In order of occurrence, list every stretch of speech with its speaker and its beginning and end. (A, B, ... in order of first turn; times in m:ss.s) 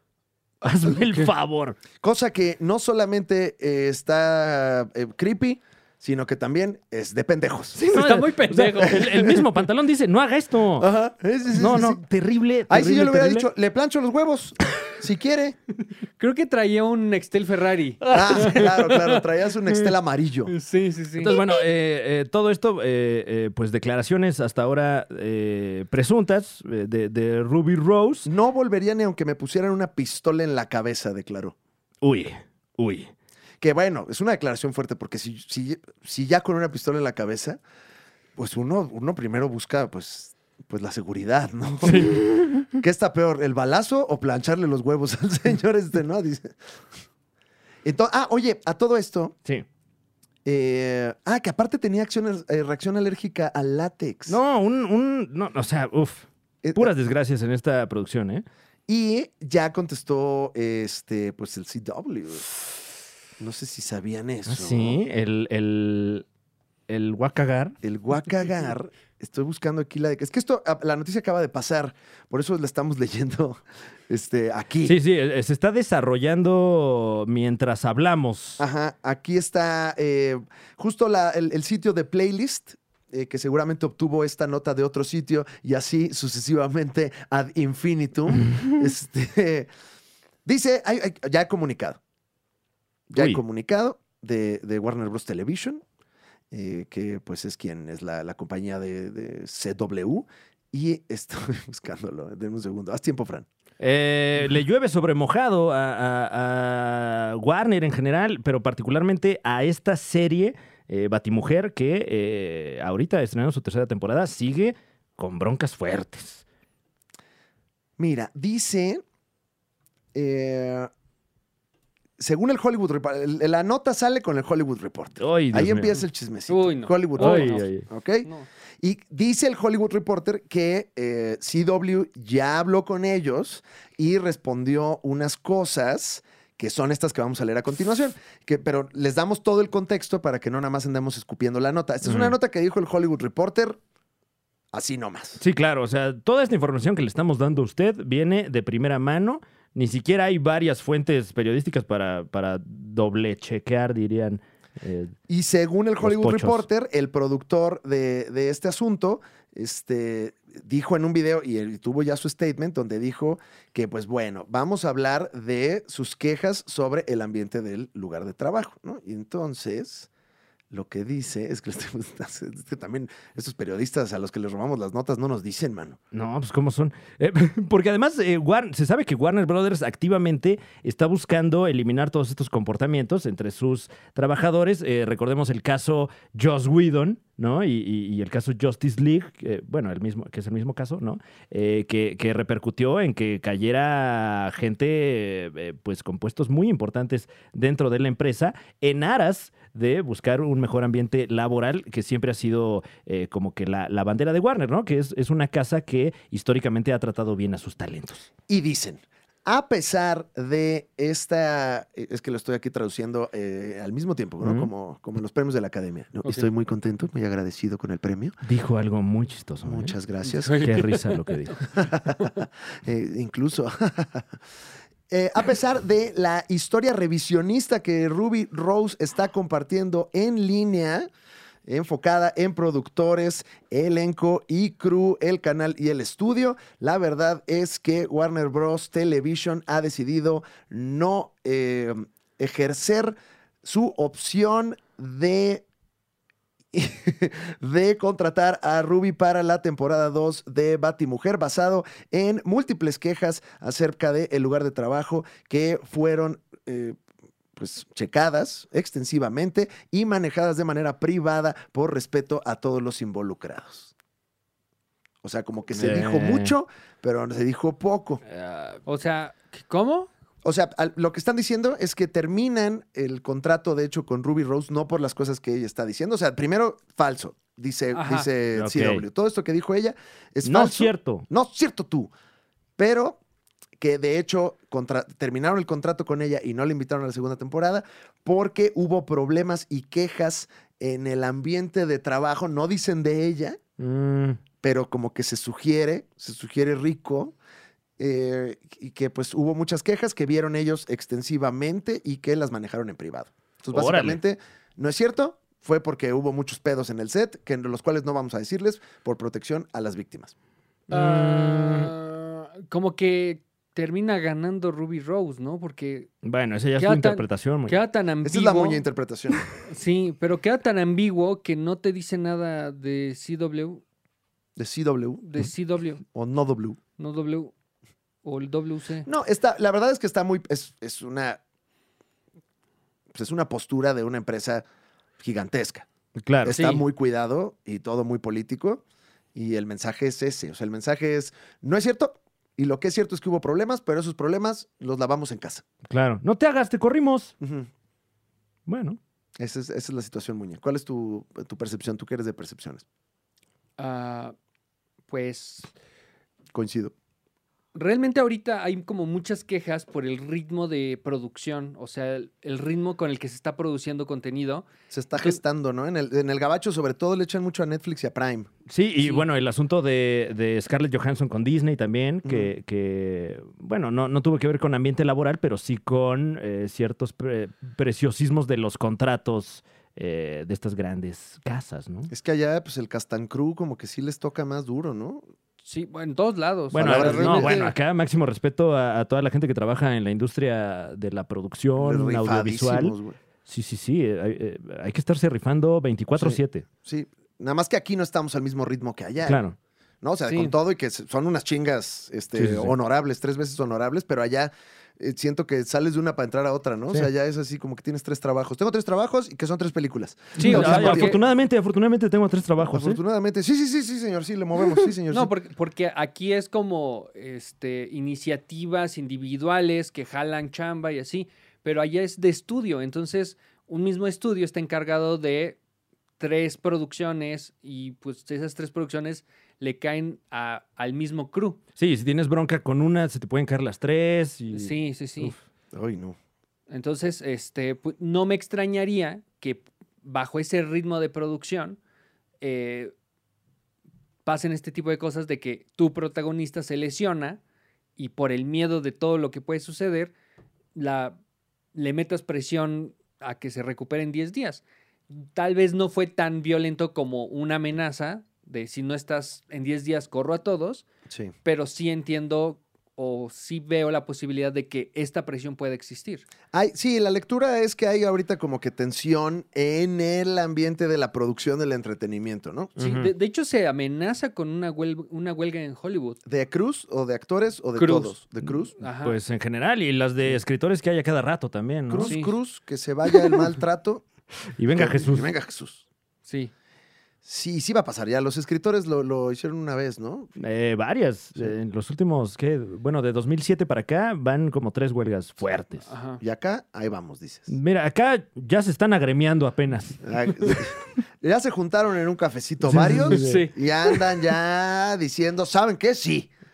0:00.6-0:01.8 A
0:02.0-0:07.8 B
0:07.8-0:10.9 A
0:07.9-0:09.4 C
0:09.0-0:09.3 B
0:10.8-0:12.0 B
0:11.5-0:13.5 A
0:12.7-0:15.6 B
0:16.2-0:19.2 C
0:18.1-0:20.5 B
0:20.5-0:21.4 C
0:21.2-0:28.3 A
0:28.2-0:31.5 B
0:32.0-0:33.1 A
0:33.6-0:37.6 B
0:38.4-0:46.6 B
0:41.8-0:42.7 A
0:47.8-0:49.4 B
0:50.4-0:54.4 B
0:54.3-0:58.4 A
0:56.6-0:56.9 B
0:58.9-1:02.5 B
1:03.4-1:05.0 B
1:04.4-1:06.2 A
1:06.9-1:07.8 A
1:07.8-1:15.0 B
1:14.8-1:18.6 A
1:18.6-1:29.7 B
1:30.4-1:32.0 B
1:33.1-1:35.8 B
1:33.1-1:33.4 A
1:36.5-1:43.4 B
1:43.8-1:56.4 A
1:58.0-1:59.0 B
2:00.1-2:00.9 B
2:02.2-2:08.3 B
2:05.2-2:06.0 A
2:06.5-2:07.7 C
2:07.2-2:07.8 A
2:08.8-2:23.8 B
2:22.0-2:22.3 A
2:24.7-2:25.4 B
2:25.4-2:35.1 A
2:35.3-2:50.1 B
2:36.0-2:36.6 A
2:50.7-2:56.0 B
2:56.1-3:28.3 A
3:28.5-3:38.4 B
3:34.4-3:34.7 A
3:38.4-3:40.0 A
3:39.6-3:40.7 B
3:40.3-3:41.3 C
3:40.5-3:41.7 A
3:41.7-3:44.4 B
3:45.1-3:51.1 B
3:51.7-4:05.6 B
4:06.7-4:17.0 B
4:17.6-4:23.9 B
4:25.2-4:28.2 B
4:25.7-4:26.5 A
4:28.3-4:28.8 A
4:28.8-4:30.1 C
4:30.4-4:42.1 B
4:37.9-4:38.3 C
4:38.5-4:39.0 A
4:40.4-4:41.2 A
4:42.8-4:43.2 B
4:43.8-4:53.6 B
4:53.8-4:54.4 A
4:54.6-4:57.3 B
4:58.0-5:10.3 B
5:03.7-5:04.2 A
5:10.9-5:11.9 A
5:10.9-5:16.1 C
5:16.2-5:17.8 A
5:16.8-5:18.8 C
5:18.2-5:19.4 B
5:19.6-5:23.8 C
5:24.6-5:25.2 B
5:25.2-5:26.0 C
5:26.1-5:26.8 B
5:27.0-5:27.5 C
5:28.2-5:29.1 C
5:29.0-5:31.4 B
5:33.1-5:34.6 B
5:35.2-5:35.9 B
5:36.1-5:36.8 A
5:36.4-5:38.8 B
5:36.5-5:36.8 C
5:39.3-5:45.6 B
5:45.9-5:47.3 A
5:47.4-5:47.7 B
5:48.7-5:49.0 A
5:49.4-5:52.8 B
5:53.8-5:54.3 C
5:55.1-5:55.7 C
5:56.5-5:56.9 B
5:57.7-6:05.4 C
6:04.9-6:08.5 B
6:08.7-6:22.1 A
6:09.0-6:09.2 C
6:12.2-6:12.5 B
6:22.1-6:25.2 B
6:25.6-6:27.7 C
6:26.7-6:33.0 A
6:26.7-6:27.6 B
6:31.8-6:33.2 B
6:33.5-6:36.6 A
6:36.2-6:39.4 B
6:39.2-6:39.6 A
6:40.0-6:51.2 B
6:40.3-6:40.5 C
6:42.3-6:42.7 A
6:50.4-6:51.2 C
6:50.4-6:53.0 A
6:52.7-6:55.3 B
6:55.1-7:05.6 C
7:06.2-7:11.6 C
7:11.8-7:15.4 A
7:14.5-7:15.3 C
7:15.7-7:16.2 B
7:16.7-7:21.8 C
7:22.4-7:22.9 C
7:24.2-7:27.4 C
7:28.0-7:30.1 C
7:30.8-7:31.2 C
7:31.7-7:40.8 C
7:41.4-7:46.3 C
7:46.5-7:52.7 B
7:52.8-7:53.1 A
7:52.8-7:56.2 C
7:56.2-7:58.7 B
7:57.8-7:58.2 C
7:58.8-7:59.2 C
7:59.0-8:02.2 A
8:01.9-8:04.0 B
8:02.0-8:02.3 C
8:04.6-8:05.3 A
8:04.7-8:05.8 B
8:06.2-8:06.5 C
8:07.2-8:10.4 B
8:10.4-8:15.9 A
8:15.8-8:16.2 C
8:16.2-8:17.5 B
8:17.5-8:20.0 A
8:20.0-8:26.3 B
8:22.6-8:23.4 A
8:23.0-8:24.0 C